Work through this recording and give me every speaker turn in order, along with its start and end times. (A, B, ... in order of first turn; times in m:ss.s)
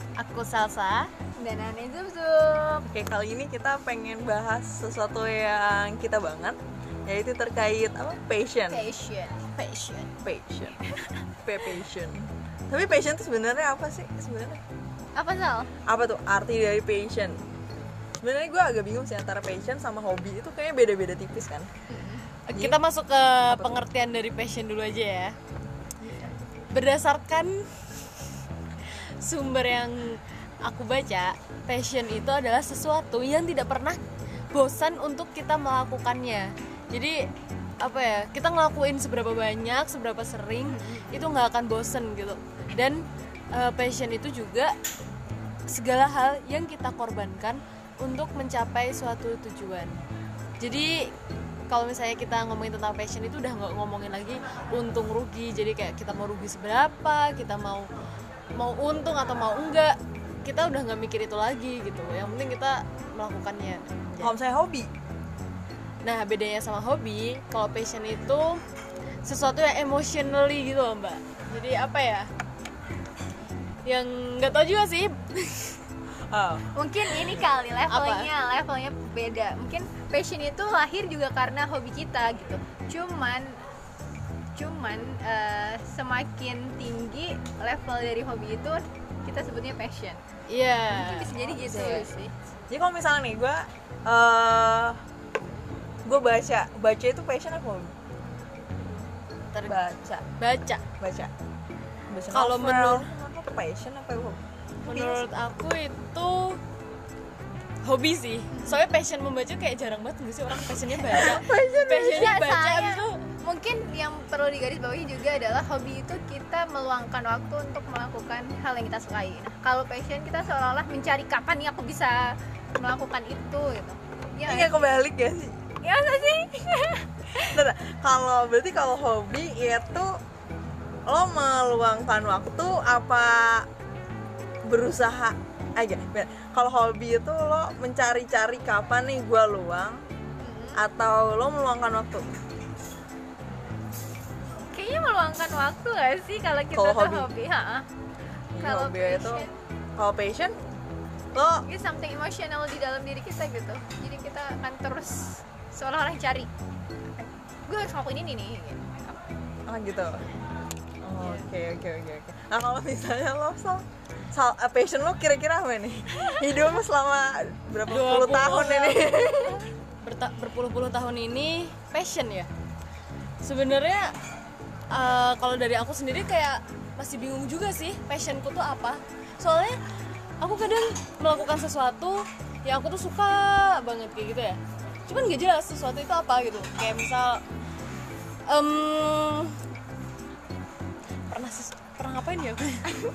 0:00.2-0:01.1 A
0:01.4-0:02.8 B
0:02.8-0:08.8 C
0:08.7-0:09.4 B
0:09.6-0:10.1 A
0:10.2-0:10.8 C
0:11.4-0:14.6 C
0:15.1-0:15.7 B
0:15.9-0:17.4 C
0:18.2-0:21.7 C
0:21.9-0:22.2 B
0:22.5-0:25.3 A
0:23.5-0:23.8 C
0:26.7-0:27.8 A
0:29.2-0:34.0 A
0:34.5-0:37.3 A
0:37.8-0:44.8 A
0:40.6-0:41.2 B
0:45.7-0:50.0 A
0:50.6-0:51.1 A
0:51.7-0:57.9 A
0:58.6-1:04.3 A
1:04.2-1:04.9 C
1:06.0-1:08.6 A
1:09.2-1:12.3 A
1:13.8-1:15.8 A
1:16.3-1:16.7 C
1:16.7-1:23.6 B
1:17.2-1:18.3 A
1:24.5-1:30.2 B
1:30.5-1:31.3 A
1:30.9-1:32.3 B
1:31.4-1:32.1 C
1:32.7-1:35.0 C
1:36.0-1:37.9 C
1:39.5-1:39.8 A
1:39.6-1:40.2 C
1:40.4-1:40.8 A
1:41.0-1:41.3 C
1:42.1-1:45.3 C
1:42.3-1:43.1 A
1:44.8-1:46.6 A
1:47.8-1:53.2 A
1:48.5-1:48.8 B
1:51.1-1:52.1 C
1:51.1-2:04.8 B
2:04.4-2:05.5 C
2:05.8-2:07.6 B
2:07.5-2:10.2 C
2:11.1-2:13.7 C
2:14.6-2:20.0 C
2:20.4-2:20.8 B
2:20.8-2:22.3 C
2:24.7-2:27.8 B
2:26.7-2:27.3 C
2:28.5-2:30.5 C
2:28.6-2:29.5 B
2:31.3-2:31.6 C
2:31.6-2:36.5 B
2:37.2-2:39.2 B
2:39.7-2:40.3 C
2:41.0-2:49.6 C
2:41.2-2:41.5 A
2:47.9-2:49.5 A
2:50.0-2:52.5 A
2:53.4-2:54.1 A
2:54.9-2:59.8 A
3:00.4-3:07.4 A
3:08.5-3:09.6 A
3:11.3-3:12.8 A